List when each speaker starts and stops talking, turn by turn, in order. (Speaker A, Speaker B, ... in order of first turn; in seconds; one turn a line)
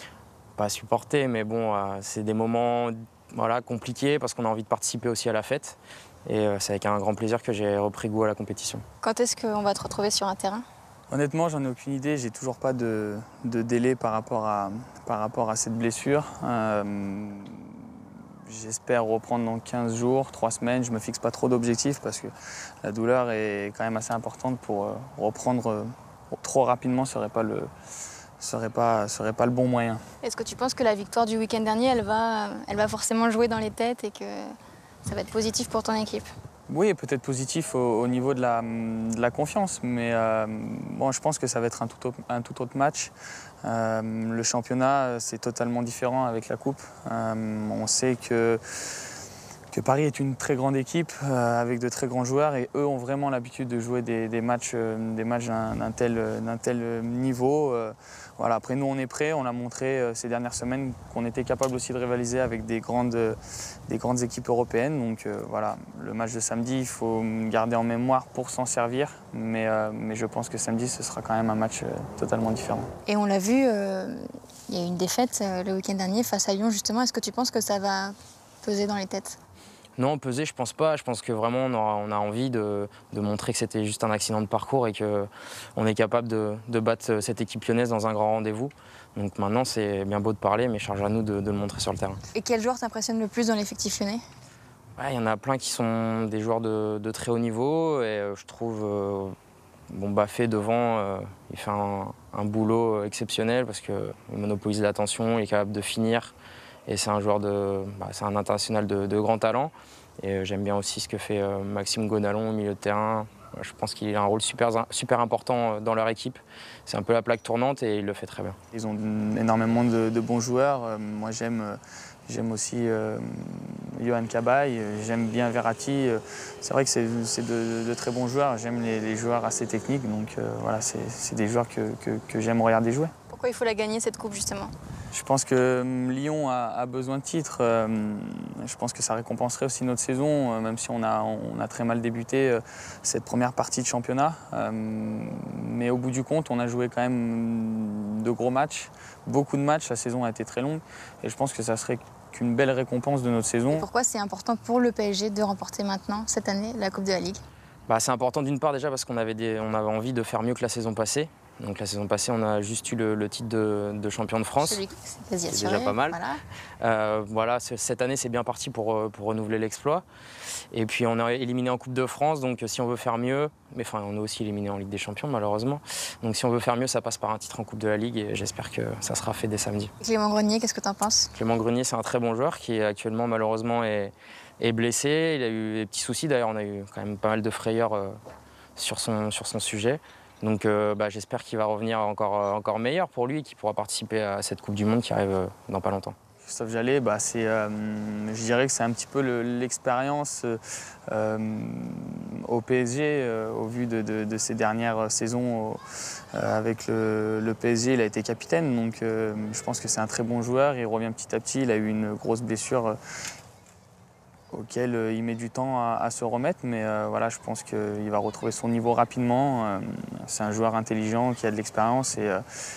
Speaker A: 0.6-8.8
Speaker B: 9.0-10.7
Speaker C: 11.1-17.9
Speaker C: 18.5-22.3
Speaker C: 22.8-27.7
Speaker C: 28.4-30.0
Speaker B: 30.2-34.5
Speaker B: 35.0-36.3
Speaker C: 36.7-48.6
Speaker C: 49.7-72.9
Speaker B: 73.1-79.4
Speaker A: 80.0-92.2
Speaker B: 92.3-94.2
Speaker A: 95.0-99.4
Speaker A: 99.9-106.3
Speaker A: 106.9-118.6
Speaker C: 118.7-133.1
Speaker B: 133.3-134.7
Speaker C: 135.1-153.9
Speaker B: 153.7-157.4
Speaker A: 157.9-164.8
Speaker B: 164.6-166.4
Speaker A: 165.5-166.2
Speaker A: 166.8-170.0
Speaker A: 170.7-179.9
Speaker B: 180.0-181.3
Speaker A: 181.3-188.2
Speaker A: 188.8-196.2
Speaker C: 196.4-205.8
Speaker C: 206.3-213.0
Speaker C: 214.5-222.4